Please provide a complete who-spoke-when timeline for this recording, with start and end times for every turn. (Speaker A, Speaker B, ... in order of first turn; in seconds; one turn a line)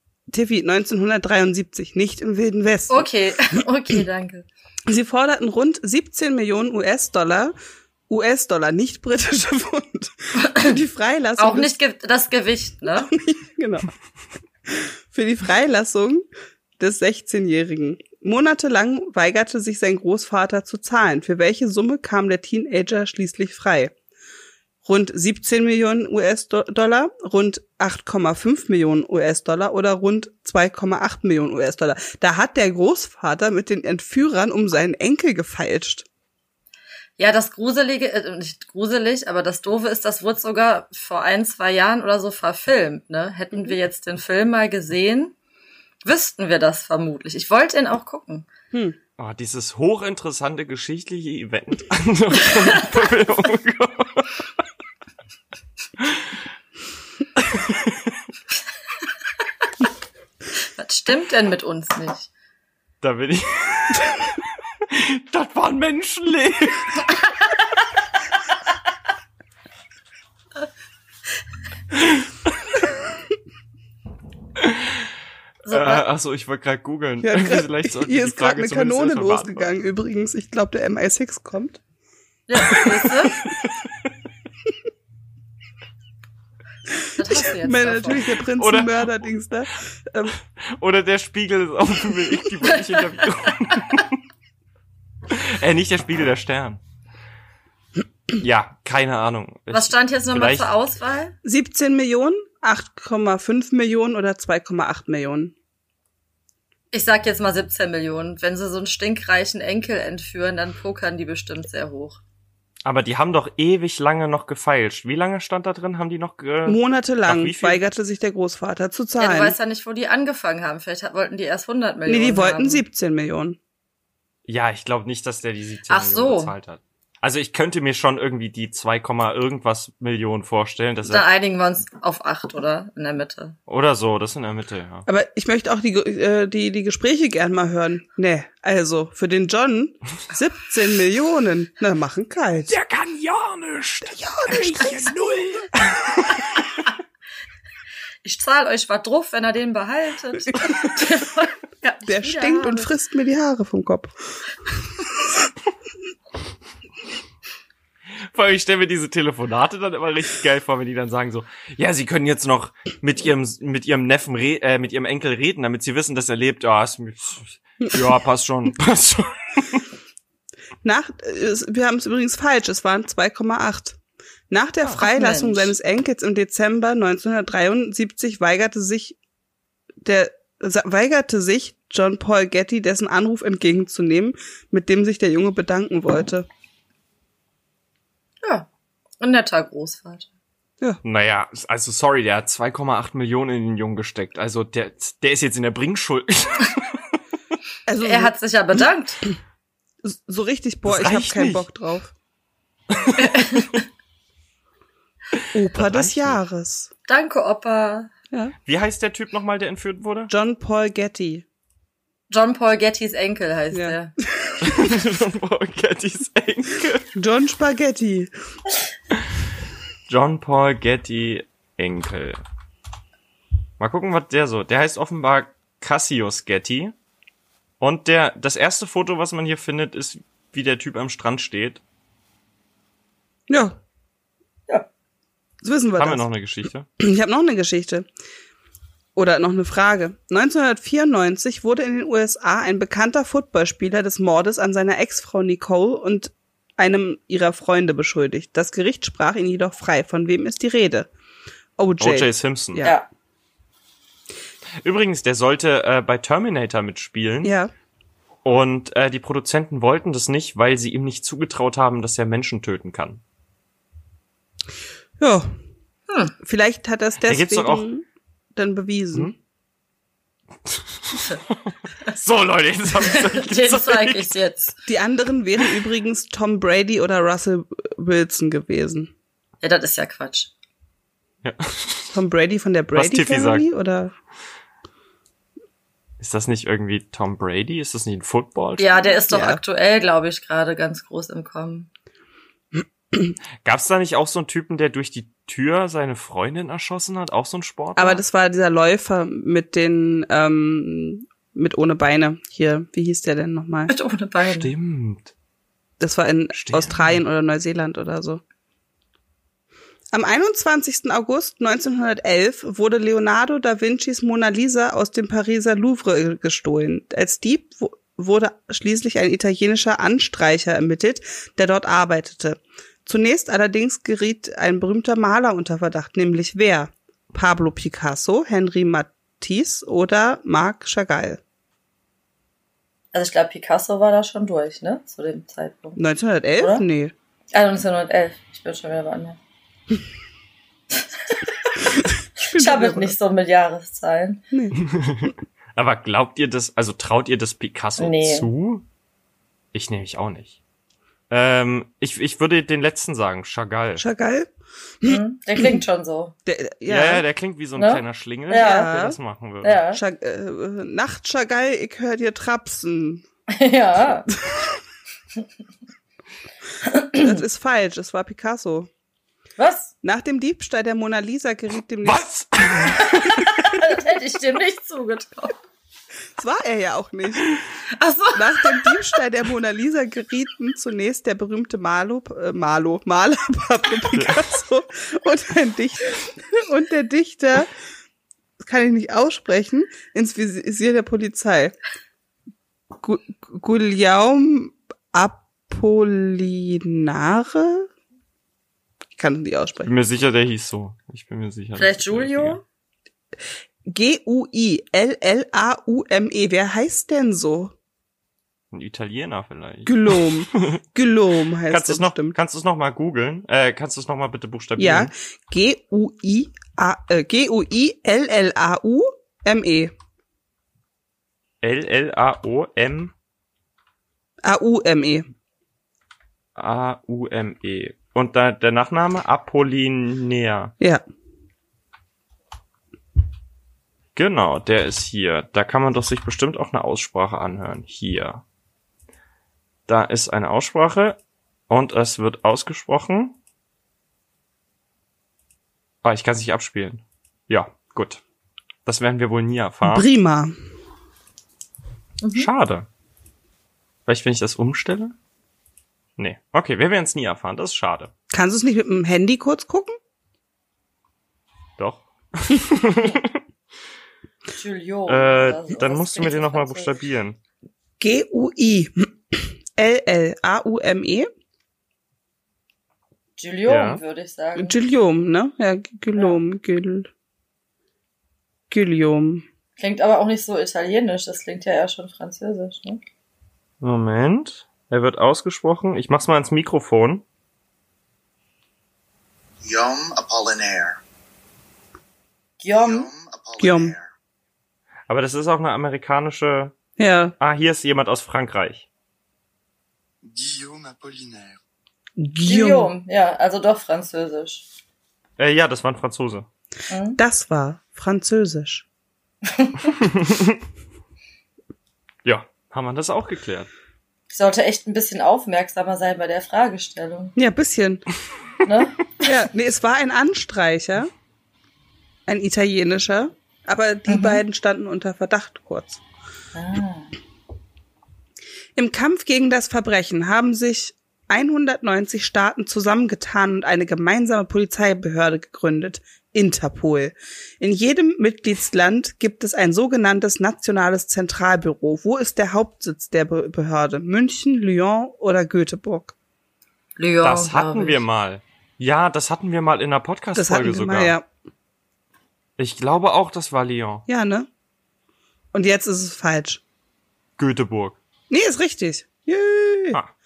Speaker A: 0.3-3.6
Speaker B: 2.9-4.5
Speaker A: 4.9-7.5
Speaker A: 8.1-11.7
Speaker B: 10.4-10.7
Speaker B: 11.4-13.1
Speaker A: 13.0-13.9
Speaker A: 14.7-16.3
Speaker A: 16.8-23.9
Speaker A: 24.8-36.1
Speaker B: 37.2-45.3
Speaker B: 46.0-48.5
Speaker C: 49.2-54.4
Speaker C: 56.0-56.3
Speaker C: 57.4-58.1
Speaker B: 60.8-62.3
Speaker C: 63.0-64.2
Speaker C: 64.9-67.0
Speaker C: 71.9-72.5
Speaker C: 74.6-75.1
Speaker B: 75.7-76.0
Speaker C: 75.7-79.7
Speaker A: 77.2-81.8
Speaker B: 82.5-83.5
Speaker C: 82.7-83.9
Speaker B: 87.2-88.3
Speaker A: 87.2-90.3
Speaker C: 88.5-89.1
Speaker C: 90.5-94.2
Speaker B: 92.7-93.0
Speaker C: 95.3-96.8
Speaker C: 98.3-100.7
Speaker B: 99.7-101.3
Speaker A: 101.4-105.5
Speaker B: 106.9-112.2
Speaker C: 112.8-117.8
Speaker A: 116.6-119.5
Speaker B: 119.2-122.8
Speaker A: 122.0-123.6
Speaker C: 124.5-131.2
Speaker B: 125.9-126.5
Speaker B: 131.1-133.6
Speaker C: 133.7-135.1
Speaker A: 135.1-142.7
Speaker C: 142.7-146.4
Speaker A: 144.1-145.1
Speaker B: 148.2-152.9
Speaker A: 152.0-155.0
Speaker C: 158.3-169.8
Speaker A: 170.8-174.0
Speaker A: 174.5-179.2
Speaker B: 174.9-175.7
Speaker A: 180.0-186.4
Speaker B: 188.4-188.7
Speaker B: 189.2-190.3
Speaker C: 191.0-197.0
Speaker A: 197.9-198.3
Speaker B: 198.0-199.2
Speaker A: 200.0-202.1
Speaker C: 200.8-201.7
Speaker C: 202.9-203.6
Speaker B: 203.2-203.8
Speaker C: 205.4-206.4
Speaker A: 205.5-206.9
Speaker B: 207.1-208.1
Speaker C: 208.7-210.3
Speaker A: 210.3-211.4
Speaker B: 212.3-214.1
Speaker A: 213.7-214.9
Speaker C: 214.6-217.1
Speaker A: 217.1-218.3
Speaker C: 220.1-222.4
Speaker C: 223.8-226.9
Speaker C: 227.8-231.8
Speaker A: 233.5-233.8
Speaker A: 235.6-236.3
Speaker C: 236.0-236.9
Speaker A: 237.0-238.1
Speaker A: 239.2-251.1
Speaker A: 251.8-253.0
Speaker C: 252.0-252.9
Speaker B: 252.8-253.1
Speaker C: 254.8-257.5
Speaker A: 257.4-257.7
Speaker C: 258.4-263.2
Speaker A: 265.2-265.5
Speaker B: 266.1-266.3
Speaker A: 266.4-269.3
Speaker C: 267.2-267.8
Speaker C: 270.7-274.3
Speaker B: 273.0-274.7
Speaker A: 274.9-279.1
Speaker B: 279.6-280.5
Speaker C: 281.4-282.1
Speaker A: 282.1-284.1
Speaker C: 282.9-283.7
Speaker C: 286.2-289.0
Speaker B: 288.8-291.9
Speaker A: 289.3-289.6
Speaker C: 293.6-298.2
Speaker A: 297.9-303.9
Speaker B: 303.9-304.7
Speaker C: 304.5-305.3
Speaker A: 306.0-308.4
Speaker C: 306.5-307.2
Speaker A: 310.1-331.4
Speaker B: 333.1-336.0
Speaker A: 336.0-337.1
Speaker B: 336.6-336.8
Speaker B: 337.5-339.4
Speaker B: 340.9-344.4
Speaker A: 342.5-343.1
Speaker C: 344.8-348.8
Speaker B: 348.0-348.5
Speaker C: 349.7-350.6
Speaker C: 351.3-354.0
Speaker A: 354.0-354.5
Speaker A: 355.0-355.8
Speaker B: 355.0-356.3
Speaker A: 356.4-357.2
Speaker C: 356.9-359.8
Speaker B: 357.8-358.9
Speaker A: 358.5-359.2
Speaker B: 359.6-360.0
Speaker A: 359.9-363.2
Speaker B: 363.5-364.3
Speaker A: 364.4-364.8
Speaker B: 366.8-367.4
Speaker A: 367.2-368.9
Speaker B: 369.6-369.9
Speaker A: 370.0-372.2
Speaker C: 372.0-373.7
Speaker B: 373.0-375.5
Speaker A: 376.4-377.5
Speaker B: 377.9-379.0
Speaker A: 378.3-387.7
Speaker C: 384.1-384.4
Speaker A: 388.6-391.8
Speaker A: 393.0-397.9
Speaker A: 399.2-399.9
Speaker C: 399.8-402.6
Speaker B: 401.8-402.6
Speaker A: 403.9-407.7
Speaker C: 408.7-410.8
Speaker A: 409.9-412.4
Speaker C: 411.7-415.1
Speaker A: 414.8-419.9
Speaker C: 421.6-423.1
Speaker A: 424.4-425.2
Speaker C: 426.6-430.7
Speaker C: 434.1-438.4
Speaker C: 439.9-443.4
Speaker C: 446.0-448.2
Speaker C: 448.9-450.1
Speaker A: 449.8-450.5
Speaker B: 452.2-452.5
Speaker C: 452.3-452.9
Speaker C: 454.1-455.1
Speaker C: 456.2-458.1
Speaker A: 458.3-459.9
Speaker C: 461.8-463.4
Speaker B: 464.5-466.9
Speaker C: 465.1-467.4
Speaker A: 468.0-471.3
Speaker B: 473.4-474.8
Speaker C: 473.6-474.0
Speaker A: 474.6-477.1
Speaker A: 478.7-479.4
Speaker B: 479.8-483.0
Speaker C: 483.8-487.2
Speaker D: 489.6-491.0
Speaker B: 492.6-493.1
Speaker D: 492.7-494.1
Speaker A: 493.6-493.9
Speaker C: 495.1-496.7
Speaker A: 497.0-497.3
Speaker C: 497.4-498.9
Speaker D: 500.2-501.6
Speaker A: 502.2-502.9
Speaker B: 502.4-504.6
Speaker C: 505.4-506.5
Speaker B: 506.9-507.2
Speaker A: 507.1-508.8
Speaker B: 509.4-509.9
Speaker C: 510.0-510.6
Speaker C: 512.2-513.7
Speaker B: 514.3-517.3
Speaker A: 517.4-518.0
Speaker B: 518.6-519.2
Speaker A: 519.2-521.1
Speaker A: 522.3-526.0
Speaker B: 524.1-524.4
Speaker B: 526.5-527.1
Speaker A: 528.8-546.1
Speaker B: 547.0-548.0
Speaker C: 547.2-551.2
Speaker A: 550.3-551.2
Speaker C: 552.6-554.0
Speaker A: 554.1-554.5
Speaker A: 555.5-556.6
Speaker C: 557.4-558.0
Speaker A: 558.3-560.0